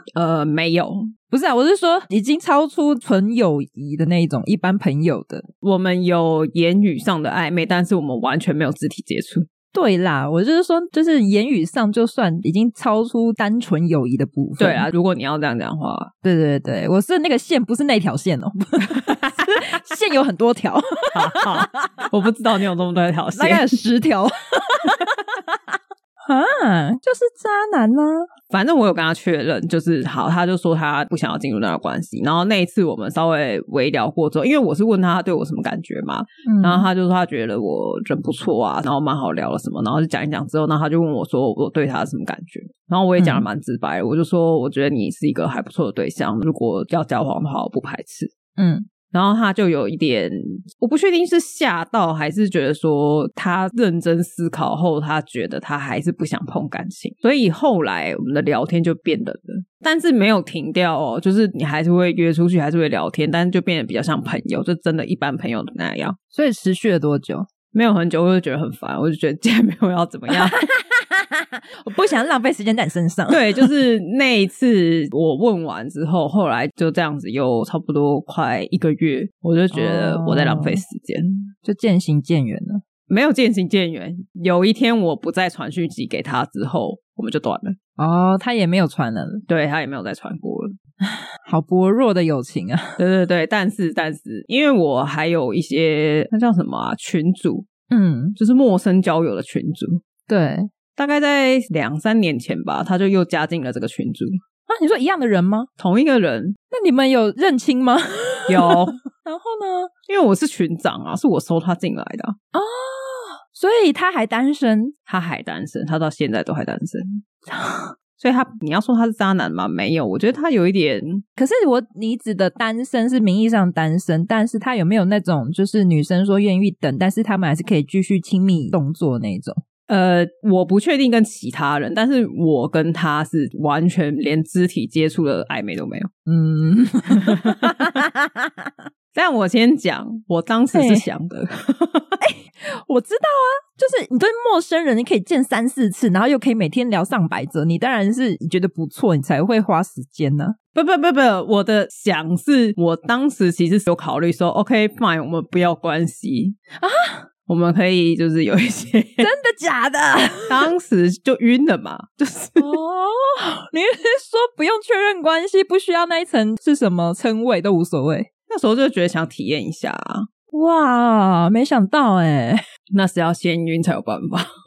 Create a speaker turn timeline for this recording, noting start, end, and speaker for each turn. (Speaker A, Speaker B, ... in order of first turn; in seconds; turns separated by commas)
Speaker A: 0.2-1.1, Speaker B: 1.3-5.5, Speaker A: 5.6-9.5, Speaker B: 9.7-14.9, Speaker A: 14.6-16.1, Speaker B: 16.2-22.0, Speaker A: 18.9-19.5, Speaker A: 21.1-23.8, Speaker B: 23.4-28.3, Speaker A: 28.5-48.3, Speaker B: 36.5-36.9, Speaker B: 43.2-43.5, Speaker B: 48.6-48.9, Speaker A: 49.1-66.2, Speaker B: 66.3-67.5, Speaker A: 67.7-70.6, Speaker B: 70.5-73.7, Speaker A: 73.3-81.5, Speaker B: 79.7-80.8, Speaker B: 81.6-82.8, Speaker A: 83.1-87.8, Speaker B: 88.0-89.4, Speaker A: 89.5-90.7, Speaker B: 91.0-93.0, Speaker A: 93.0-97.7, Speaker B: 97.9-98.4, Speaker A: 98.4-100.0, Speaker B: 100.3-100.7, Speaker A: 101.0-104.4, Speaker B: 104.7-105.7, Speaker A: 105.8-106.6, Speaker B: 106.7-109.9, Speaker A: 108.5-108.9, Speaker A: 110.1-112.4, Speaker B: 112.5-114.9, Speaker A: 115.1-117.2, Speaker B: 117.5-117.9, Speaker A: 118.2-121.2, Speaker B: 121.4-129.6, Speaker A: 129.9-136.1, Speaker B: 136.3-138.7, Speaker A: 137.2-137.7, Speaker A: 139.1-142.2, Speaker B: 140.7-141.1, Speaker B: 142.2-150.6, Speaker A: 150.7-156.6, Speaker B: 156.8-157.3, Speaker A: 157.5-159.3, Speaker B: 159.2-160.6, Speaker A: 160.5-162.8, Speaker B: 162.6-168.3, Speaker A: 168.5-170.3, Speaker B: 170.5-172.6, Speaker A: 172.9-174.5